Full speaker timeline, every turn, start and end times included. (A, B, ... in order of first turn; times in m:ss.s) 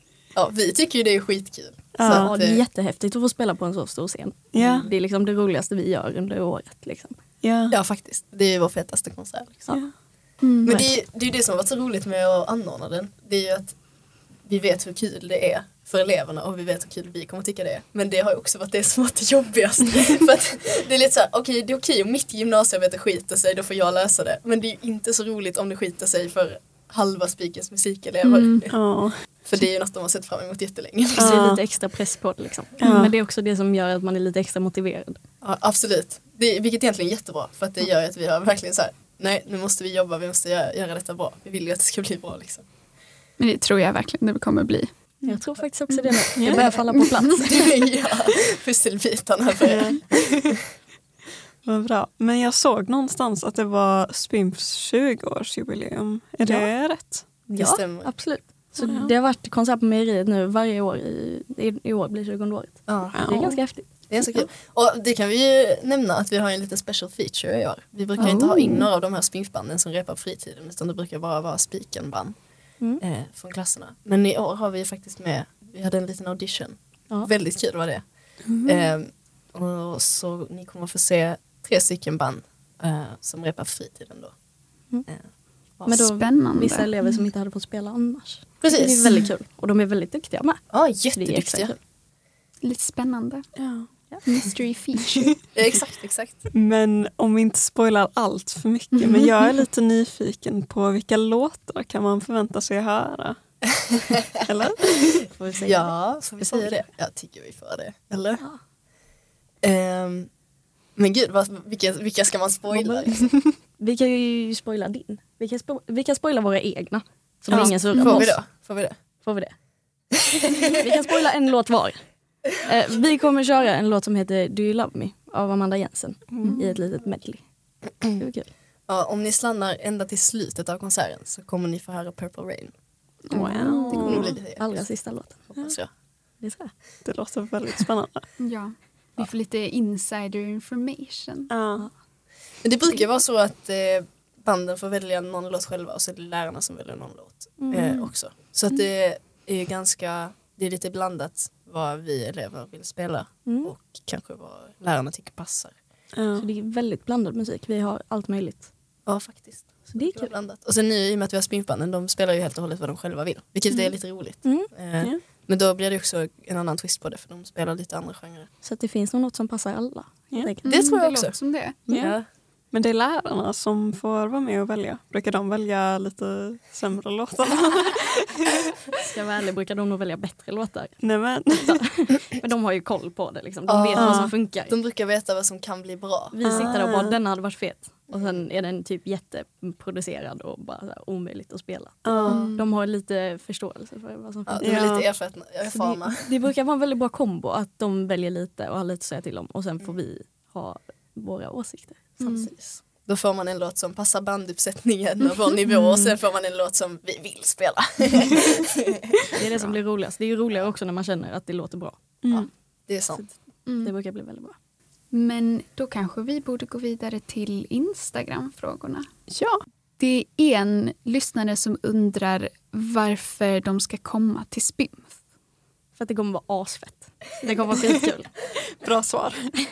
0:00.3-0:02.6 A
0:02.0-0:02.3 B
0:02.0-0:07.2 C
0:04.5-0:04.9 B
0:04.6-0:04.9 A
0:07.4-0:07.8 B
0:07.7-0:09.8 A
0:10.4-0:10.8 D
0:10.6-0:13.8 A
0:14.4-0:28.7 A
0:28.2-0:28.6 D
0:28.7-0:29.1 B
0:29.4-0:31.4 A
0:31.2-0:31.6 B
0:31.2-0:35.2 C
0:32.8-0:33.1 B
0:35.4-0:42.6 A
0:43.4-0:44.9 D
0:45.2-0:47.8 C
0:45.9-0:46.2 D
0:46.4-0:46.6 B
0:46.5-0:50.5 A
0:49.6-0:50.6 B
0:51.6-0:57.2 B
0:56.4-0:56.7 C
0:57.5-1:04.4 C
0:57.6-0:58.1 A
0:58.8-0:59.1 B
1:02.9-1:03.6 A
1:03.1-1:03.6 B
1:04.1-1:12.3 A
1:08.2-1:08.8 C
1:13.0-1:18.0 A
1:18.5-1:18.9 B
1:18.6-1:24.3 A
1:25.8-1:31.8 C
1:25.9-1:26.9 D
1:28.6-1:29.3 A
1:30.7-1:31.8 A
1:32.6-1:33.4 D
1:33.6-1:33.9 B
1:34.2-1:35.4 D
1:35.5-1:36.4 A
1:36.5-1:43.4 B
1:39.0-1:39.2 D
1:43.8-1:44.4 A
1:44.4-1:45.3 B
1:45.3-1:46.7 C
1:45.6-1:48.4 A
1:49.6-1:50.3 A
1:51.0-1:53.4 A
1:52.7-1:58.4 C
1:57.5-1:59.0 A
1:58.0-1:58.3 D
1:59.2-1:59.5 C
2:00.4-2:02.0 C
2:02.6-2:07.4 C
2:06.3-2:06.7 B
2:08.1-2:08.5 C
2:08.9-2:12.7 A
2:13.3-2:14.2 D
2:13.3-2:15.5 C
2:13.3-2:14.4 B
2:13.8-2:14.9 A
2:15.4-2:15.9 A
2:16.4-2:16.7 C
2:17.0-2:18.2 B
2:18.4-2:21.5 D
2:21.5-2:21.9 B
2:22.6-2:35.7 A
2:27.6-2:28.0 C
2:33.4-2:33.7 C
2:36.1-2:36.5 B
2:36.4-2:38.7 C
2:39.0-2:48.5 A
2:39.9-2:40.3 C
2:48.6-2:50.7 C
2:50.6-2:51.8 D
2:50.6-2:51.4 A
2:51.9-2:52.2 C
2:51.9-2:52.2 A
2:51.9-2:52.1 B
2:52.7-2:58.6 B
2:59.0-3:01.0 C
3:01.0-3:01.8 B
3:01.5-3:04.8 C
3:03.7-3:06.6 A
3:03.9-3:04.3 B
3:06.3-3:14.9 C
3:06.4-3:07.2 B
3:08.1-3:08.4 A
3:12.0-3:12.4 B
3:12.2-3:12.7 D
3:14.5-3:16.3 A
3:14.6-3:15.0 B
3:15.6-3:22.1 C
3:22.2-3:29.2 A
3:22.2-3:22.5 D
3:29.3-3:32.0 C
3:32.2-3:32.5 B
3:32.3-3:33.2 A
3:33.1-3:34.6 C
3:33.7-3:33.9 D
3:35.1-3:39.1 D
3:39.3-3:39.6 B
3:40.0-3:45.2 D
3:46.0-3:48.3 C
3:48.8-3:49.6 B